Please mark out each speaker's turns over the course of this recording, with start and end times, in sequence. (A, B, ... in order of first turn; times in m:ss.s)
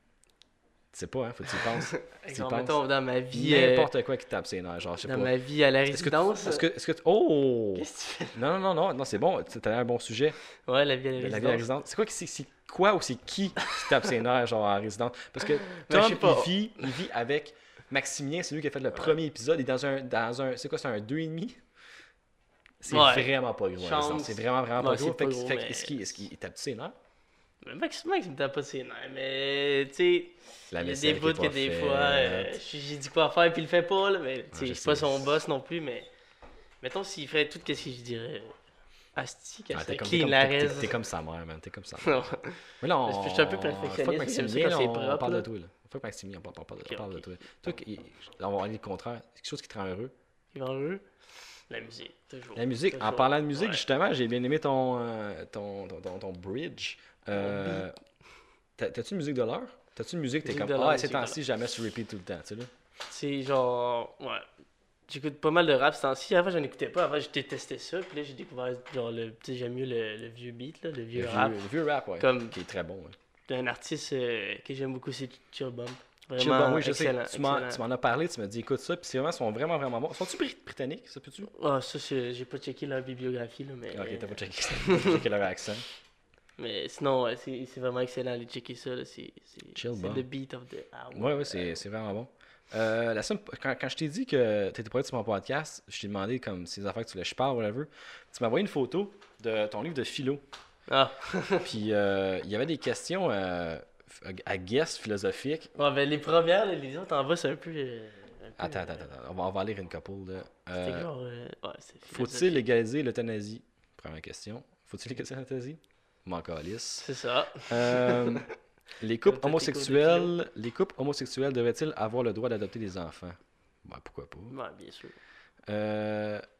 0:00.9-0:02.8 A
0:01.6-0:03.9 B
0:03.3-0:05.3 A
0:05.0-0:06.6 B
0:05.9-0:10.4 A
0:07.7-0:08.4 B
0:10.6-0:11.6 B
0:11.2-0:21.6 A
0:15.7-0:16.5 B
0:22.8-0:27.0 A
0:22.9-0:26.2 B
0:27.6-0:36.1 B
0:30.7-0:32.5 A
0:34.5-0:35.3 A
0:36.8-0:38.6 B
0:39.2-0:41.0 B
0:39.7-0:42.3 A
0:42.0-0:45.5 B
0:42.8-0:50.1 A
0:46.8-0:47.2 B
0:50.5-0:51.0 B
0:51.7-0:53.8 B
0:52.6-0:57.9 A
0:57.3-0:57.9 B
0:58.8-1:02.7 A
1:00.4-1:01.4 B
1:03.1-1:04.4 B
1:05.1-1:11.6 B
1:11.1-1:13.2 A
1:12.2-1:12.6 B
1:13.5-1:17.8 B
1:16.4-1:21.5 A
1:21.5-1:25.2 B
1:23.9-1:25.8 A
1:26.6-1:31.8 B
1:29.7-1:30.2 A
1:31.1-1:40.4 A
1:40.9-1:41.7 B
1:41.6-1:45.7 A
1:45.7-1:49.1 B
1:48.6-1:51.1 A
1:50.8-1:52.6 B
1:52.1-1:57.1 A
1:57.0-1:58.5 B
1:57.7-1:58.4 A
1:59.0-2:04.5 A
1:59.2-2:00.3 B
2:04.5-2:05.2 B
2:05.7-2:06.4 A